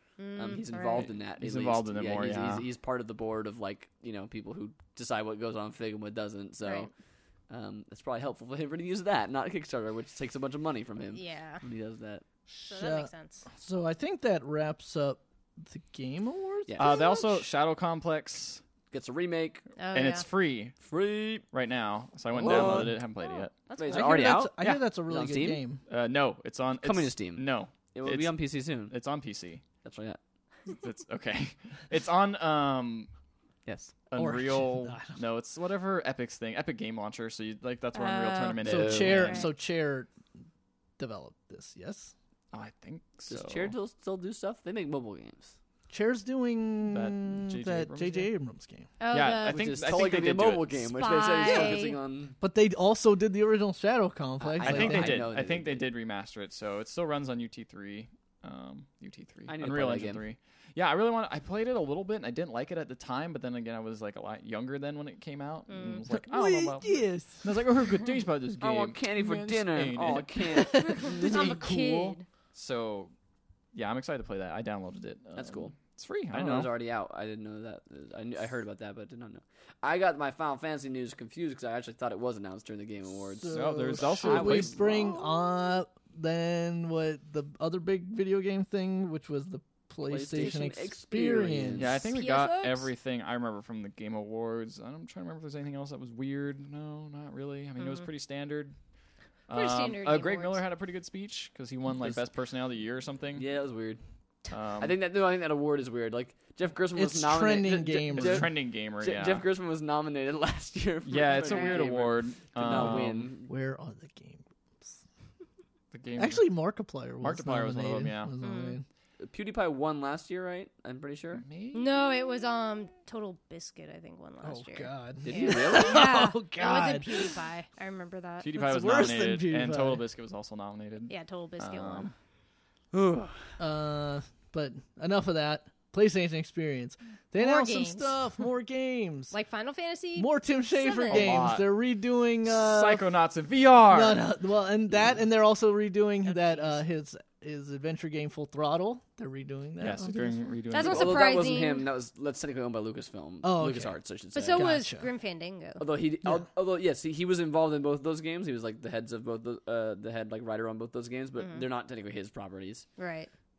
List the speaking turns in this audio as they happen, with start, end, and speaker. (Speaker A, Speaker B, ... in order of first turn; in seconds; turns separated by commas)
Speaker A: 0.2-1.1, Speaker B: 0.4-6.9, Speaker C: 1.0-2.7, Speaker A: 6.6-6.9, Speaker B: 7.5-12.2, Speaker A: 11.2-11.6, Speaker D: 12.5-17.3, Speaker A: 12.6-13.5, Speaker B: 16.7-17.1, Speaker C: 16.8-18.6, Speaker B: 18.9-19.6, Speaker A: 19.8-20.3, Speaker C: 19.9-20.8, Speaker B: 20.8-21.4, Speaker C: 21.5-23.5, Speaker B: 22.4-23.0, Speaker D: 22.4-22.9, Speaker A: 23.7-24.3, Speaker B: 23.8-25.6, Speaker D: 23.9-25.8, Speaker C: 24.6-24.9, Speaker C: 25.9-29.6, Speaker B: 26.8-28.9, Speaker B: 29.8-30.2, Speaker C: 30.7-33.1, Speaker B: 33.7-33.9, Speaker C: 34.1-39.5, Speaker D: 34.2-35.2, Speaker A: 37.9-39.5, Speaker D: 38.6-40.1, Speaker B: 38.6-39.4, Speaker D: 41.0-42.1, Speaker C: 42.5-43.7, Speaker B: 43.3-45.5, Speaker D: 45.9-48.9, Speaker C: 46.9-48.3, Speaker A: 49.0-50.0, Speaker C: 49.1-50.8, Speaker B: 49.5-52.4, Speaker A: 50.9-52.0, Speaker D: 51.4-51.8, Speaker D: 52.4-55.2, Speaker B: 54.4-55.9, Speaker C: 54.6-73.1, Speaker B: 59.5-60.2, Speaker A: 65.7-66.0, Speaker D: 66.1-67.5, Speaker B: 68.6-71.2, Speaker D: 70.5-72.1, Speaker A: 70.8-72.3, Speaker C: 73.7-76.7, Speaker B: 75.4-75.8, Speaker B: 76.3-84.9, Speaker D: 83.3-92.0, Speaker C: 83.5-84.9, Speaker B: 90.0-92.0, Speaker C: 91.8-98.8, Speaker A: 92.1-92.9, Speaker A: 97.8-98.1, Speaker C: 99.5-103.5, Speaker A: 99.5-100.6, Speaker B: 102.0-102.2, Speaker B: 103.4-104.0, Speaker C: 104.5-105.0, Speaker B: 104.8-113.5, Speaker D: 107.0-108.5, Speaker C: 108.1-109.5, Speaker C: 111.0-113.3, Speaker A: 111.4-111.8, Speaker D: 112.7-115.0, Speaker C: 115.9-116.5, Speaker D: 116.2-118.8, Speaker C: 117.2-118.3, Speaker A: 118.4-118.8, Speaker B: 119.2-121.4, Speaker C: 121.3-121.9, Speaker A: 121.7-128.5, Speaker D: 124.4-127.3, Speaker B: 125.2-126.1, Speaker C: 128.4-132.1, Speaker D: 128.5-130.0, Speaker A: 131.1-132.1, Speaker B: 132.9-133.5, Speaker D: 133.6-139.3, Speaker A: 137.4-138.3, Speaker A: 139.3-141.4, Speaker D: 140.2-143.1, Speaker C: 141.1-141.7, Speaker C: 142.5-144.2, Speaker D: 143.9-150.4, Speaker A: 146.2-146.8, Speaker C: 149.8-151.2, Speaker A: 150.7-151.9, Speaker B: 150.8-154.7, Speaker D: 153.4-155.1, Speaker A: 154.3-155.8, Speaker B: 155.8-162.9, Speaker A: 161.4-161.7, Speaker A: 163.0-163.3